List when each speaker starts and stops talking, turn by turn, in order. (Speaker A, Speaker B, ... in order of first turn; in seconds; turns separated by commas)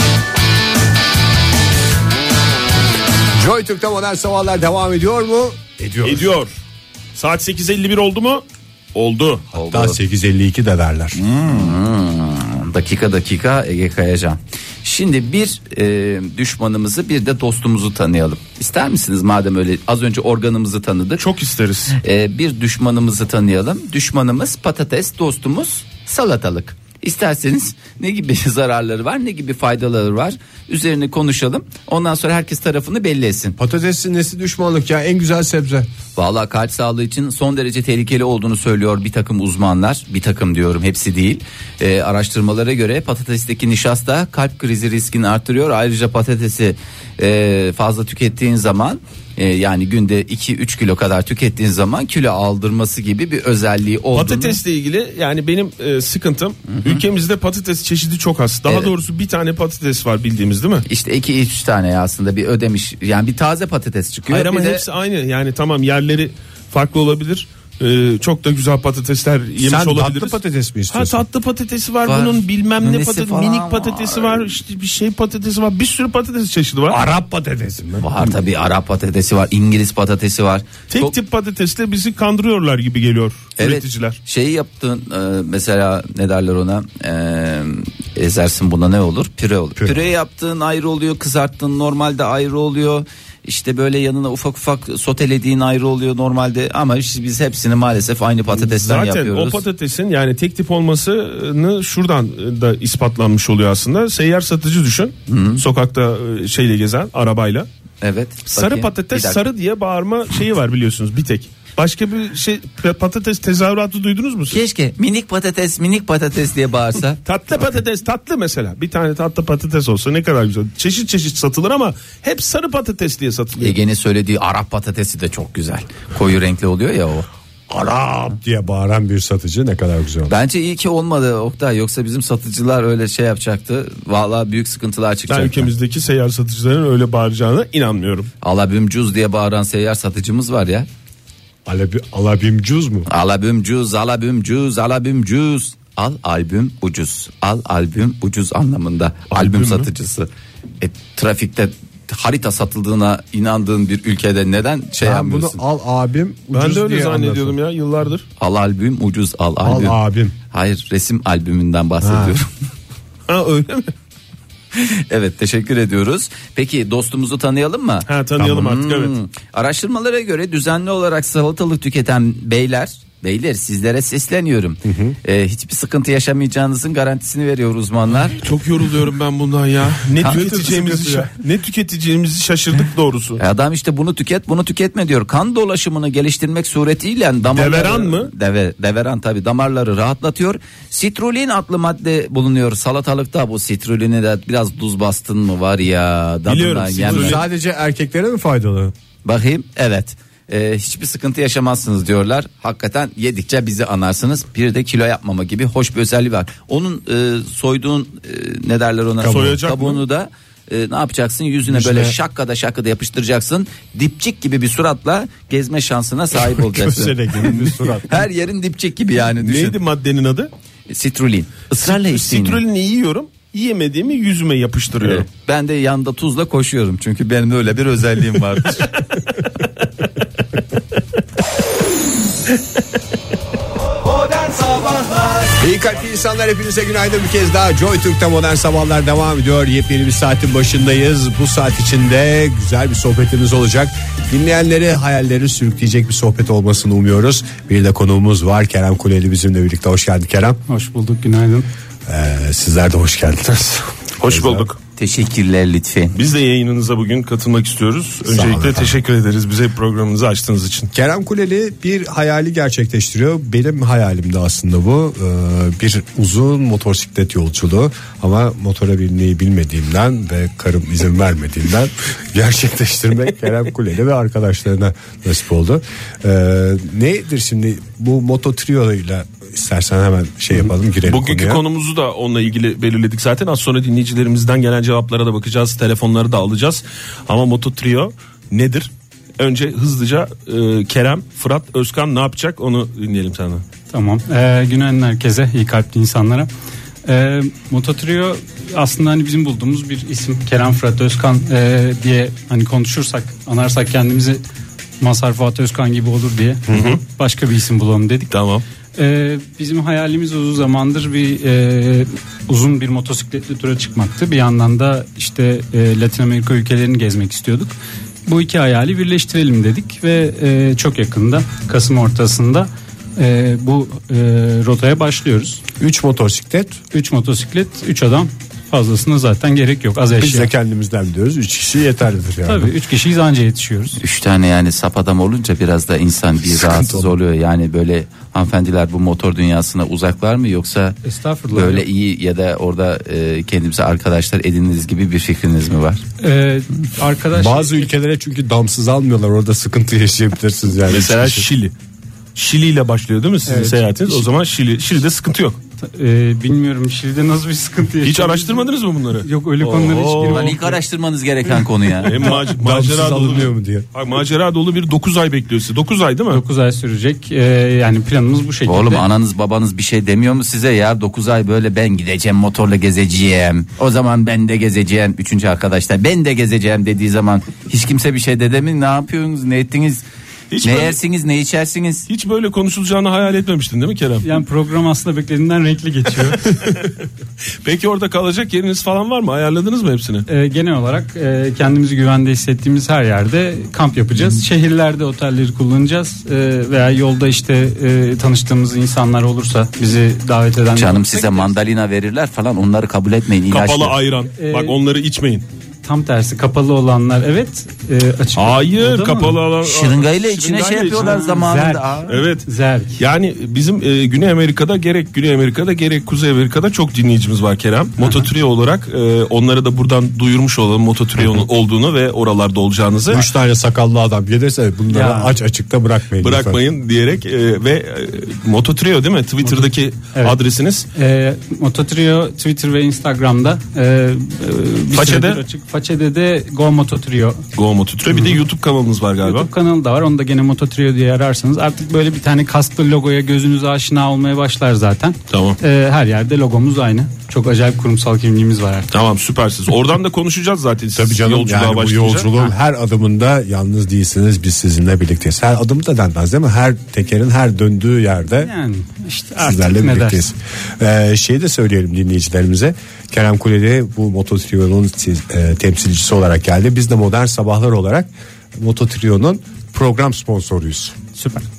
Speaker A: 3.3-6.3, Speaker B: 6.0-6.6, Speaker B: 7.1-9.4, Speaker C: 9.5-10.0, Speaker A: 9.5-11.2, Speaker C: 11.2-21.2, Speaker B: 21.2-21.9, Speaker C: 22.0-33.6, Speaker A: 33.6-35.9, Speaker C: 36.1-54.6, Speaker B: 54.1-60.8, Speaker C: 56.8-57.0, Speaker C: 58.6-58.9, Speaker C: 60.9-64.8, Speaker B: 64.3-70.3, Speaker A: 69.6-71.2, Speaker B: 70.9-77.0, Speaker C: 72.0-74.6, Speaker A: 76.9-78.1, Speaker C: 78.0-81.1, Speaker B: 80.9-84.2, Speaker C: 83.6-99.6, Speaker B: 98.5-107.7, Speaker C: 105.3-105.6, Speaker C: 108.0-109.4, Speaker B: 108.5-114.6, Speaker C: 114.5-117.2, Speaker B: 117.2-123.7, Speaker C: 123.6-127.3, Speaker A: 127.7-130.3, Speaker C: 130.3-135.7, Speaker B: 135.3-138.3, Speaker C: 138.4-140.9, Speaker A: 141.7-143.1, Speaker C: 143.1-150.3, Speaker B: 149.3-149.6, Speaker C: 150.8-155.6, Speaker A: 155.0-157.6, Speaker B: 156.5-158.2, Speaker C: 158.4-160.0, Speaker A: 159.6-160.3, Speaker C: 160.5-162.5, Speaker A: 162.0-162.3, Speaker B: 163.3-163.9, Speaker C: 164.7-178.4, Speaker B: 168.1-169.1, Speaker A: 174.8-175.2, Speaker B: 178.3-183.4, Speaker C: 180.2-180.5, Speaker A: 180.2-181.3, Speaker C: 183.4-197.4, Speaker B: 187.5-188.3, Speaker B: 196.5-197.4, Speaker A: 197.0-198.9, Speaker C: 199.2-219.8, Speaker A: 209.2-209.6, Speaker B: 209.2-210.0, Speaker A: 211.7-212.1, Speaker A: 216.6-218.2, Speaker B: 219.4-220.5, Speaker C: 220.9-222.6, Speaker B: 221.8-225.2, Speaker C: 225.0-228.9, Speaker C: 234.4-235.2, Speaker A: 235.6-250.6, Speaker D: 250.7-251.7, Speaker A: 252.1-254.7, Speaker B: 254.2-254.8, Speaker C: 254.9-256.2, Speaker B: 256.1-260.9, Speaker A: 258.2-258.9, Speaker A: 260.9-281.6, Speaker B: 281.0-293.6, Speaker D: 293.9-296.5, Speaker D: 297.0-304.4, Speaker D: 305.0-308.3, Speaker B: 306.7-307.0, Speaker B: 308.3-308.6, Speaker D: 308.9-317.7, Speaker D: 318.2-325.6, Speaker A: 325.8-326.8, Speaker D: 326.9-330.5, Speaker A: 330.1-332.7, Speaker D: 332.5-334.0, Speaker C: 334.0-341.0, Speaker A: 336.7-337.1, Speaker D: 341.0-341.9, Speaker C: 341.5-346.0, Speaker D: 346.2-347.9, Speaker A: 347.3-351.5, Speaker B: 350.9-351.7, Speaker B: 352.3-355.6, Speaker D: 353.4-354.2, Speaker D: 355.8-360.7, Speaker B: 358.0-360.7, Speaker C: 360.2-362.2, Speaker B: 362.0-366.4, Speaker A: 362.3-363.9, Speaker D: 366.3-369.0, Speaker C: 368.6-380.0, Speaker B: 380.5-380.9, Speaker C: 380.6-382.1, Speaker B: 382.1-384.2, Speaker D: 384.2-386.6, Speaker B: 386.4-386.9, Speaker B: 387.6-390.3, Speaker D: 390.3-401.6, Speaker C: 400.7-404.0, Speaker B: 403.5-405.4, Speaker D: 404.4-404.8, Speaker D: 405.8-409.4, Speaker B: 408.4-411.4, Speaker C: 409.6-412.1, Speaker D: 410.9-413.0, Speaker B: 412.1-412.4, Speaker B: 413.0-423.3, Speaker D: 418.0-418.2, Speaker A: 421.2-421.4, Speaker A: 423.1-426.6, Speaker D: 424.9-425.3, Speaker B: 426.2-430.9, Speaker D: 429.4-430.4, Speaker D: 430.9-437.4, Speaker B: 434.9-435.4, Speaker B: 437.6-439.5, Speaker D: 438.1-438.4, Speaker D: 439.2-448.9, Speaker B: 445.3-445.6, Speaker B: 448.9-452.3, Speaker A: 450.9-458.5, Speaker D: 458.3-460.2, Speaker A: 459.4-470.9, Speaker D: 471.1-471.4